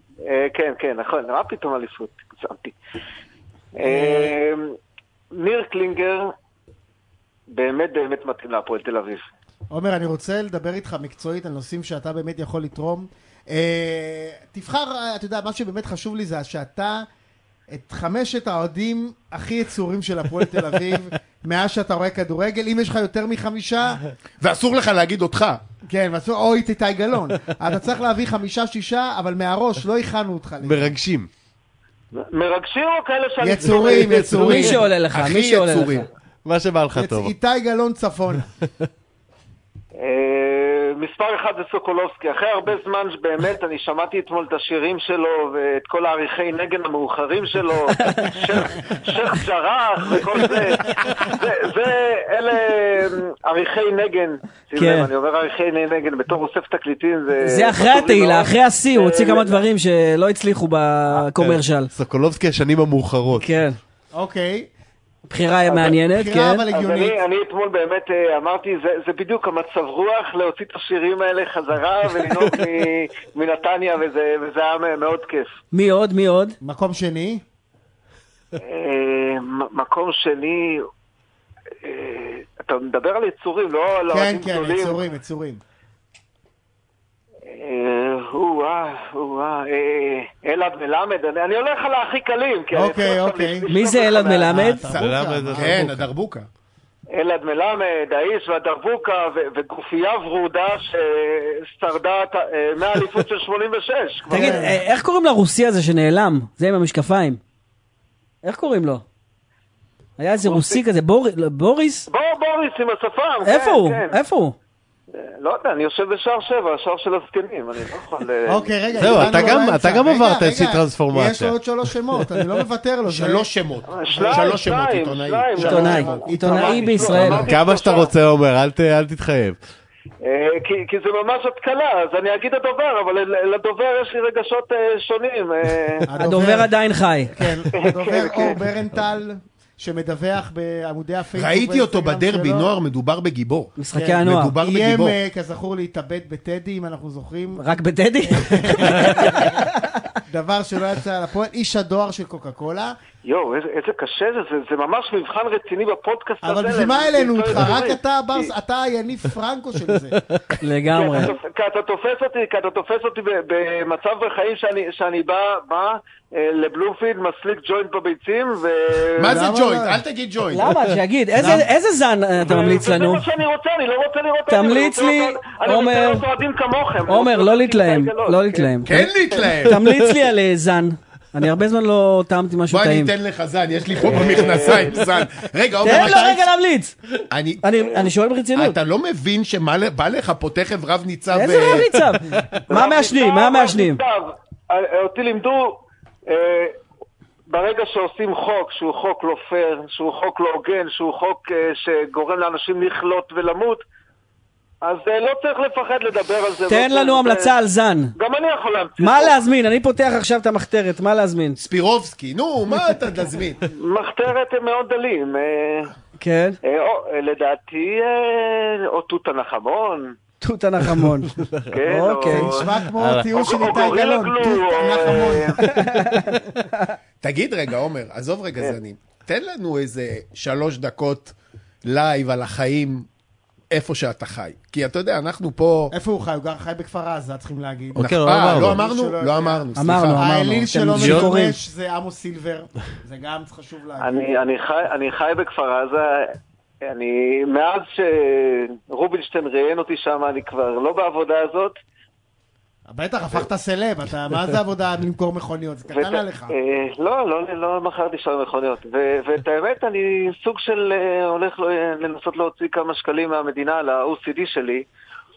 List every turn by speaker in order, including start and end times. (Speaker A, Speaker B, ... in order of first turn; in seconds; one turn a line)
Speaker A: 0.2-2.8
Speaker A: 3.8-4.7
Speaker B: 3.8-4.3
Speaker A: 5.3-6.3
Speaker A: 7.5-9.3
Speaker B: 9.7-17.1
Speaker B: 17.7-24.0
Speaker C: 24.4-25.6
Speaker B: 25.9-31.0
Speaker D: 30.6-31.3
Speaker A: 32.1-34.3
Speaker B: 33.4-34.9
Speaker D: 33.7-34.8
Speaker E: 34.3-36.0
Speaker C: 34.5-36.1
Speaker D: 36.5-37.3
Speaker B: 36.9-38.5
Speaker A: 40.0-59.6
Speaker E: 54.8-55.1
Speaker E: 57.4-61.9
Speaker D: 61.4-63.5
Speaker E: 63.4-63.8
Speaker B: 64.1-64.7
Speaker E: 65.3-66.6
Speaker A: 65.7-66.0
Speaker B: 66.1-67.2
Speaker A: 66.7-75.6
Speaker E: 75.7-76.6
Speaker B: 76.6-77.4
Speaker A: 78.6-80.8
Speaker A: 81.8-85.0
Speaker B: 84.1-85.6
Speaker A: 87.5-94.7
Speaker B: 92.7-93.7
Speaker E: 93.7-94.8
Speaker B: 94.5-95.8
Speaker C: 94.9-96.5
Speaker D: 94.9-96.1
Speaker A: 97.1-104.8
Speaker B: 104.3-104.8
Speaker E: 104.3-107.4
Speaker E: 108.4-109.0
Speaker E: 110.2-112.1
Speaker A: 110.4-110.8
Speaker A: 112.1-114.2
Speaker E: 113.4-114.6
Speaker A: 115.1-119.6
Speaker B: 118.5-123.5
Speaker D: 119.0-121.6
Speaker C: 123.1-126.2
Speaker A: 123.9-128.1
Speaker B: 124.1-124.4
Speaker E: 125.6-127.5
Speaker B: 125.6-127.5
Speaker C: 127.1-127.6
Speaker D: 127.4-129.6
Speaker A: 130.2-136.1
Speaker B: 136.1-136.7
Speaker E: 136.2-137.3
Speaker B: 137.3-142.7
Speaker A: 137.8-138.6
Speaker C: 141.3-145.2
Speaker E: 143.8-144.6
Speaker B: 143.9-147.7
Speaker E: 147.6-149.7
Speaker B: 148.2-149.5
Speaker B: 150.3-152.9
Speaker A: 153.2-158.5
Speaker B: 156.4-160.2
Speaker D: 160.3-160.6
Speaker E: 160.6-161.3
Speaker A: 160.9-169.4
Speaker C: 169.2-170.7
Speaker B: 169.3-170.0
Speaker E: 170.5-173.2
Speaker B: 171.4-171.7
Speaker A: 172.4-178.7
Speaker E: 174.5-176.2
Speaker E: 177.1-179.1
Speaker C: 178.8-179.8
Speaker E: 179.6-183.1
Speaker C: 182.7-186.5
Speaker A: 184.0-185.0
Speaker E: 185.8-187.0
Speaker B: 185.8-186.3
Speaker C: 187.3-187.7
Speaker E: 187.6-188.8
Speaker C: 188.6-191.9
Speaker E: 191.3-194.0
Speaker A: 192.7-196.7
Speaker A: 197.5-203.8
Speaker A: 204.8-207.5
Speaker E: 206.7-208.1
Speaker A: 208.2-209.4
Speaker E: 209.0-211.6
Speaker C: 211.6-213.6
Speaker A: 213.8-215.9
Speaker E: 216.2-216.6
Speaker A: 216.6-220.2
Speaker E: 220.4-222.5
Speaker D: 221.4-221.7
Speaker A: 221.7-222.7
Speaker B: 222.3-225.6
Speaker D: 222.9-223.3
Speaker A: 223.3-225.6
Speaker E: 225.6-226.4
Speaker C: 227.2-233.1
Speaker C: 233.7-235.9
Speaker B: 235.9-244.2
Speaker D: 238.0-238.8
Speaker C: 238.0-240.3
Speaker E: 239.8-241.6
Speaker D: 241.0-241.3
Speaker A: 244.0-246.3
Speaker A: 246.8-251.8
Speaker B: 252.9-256.6
Speaker A: 255.9-264.9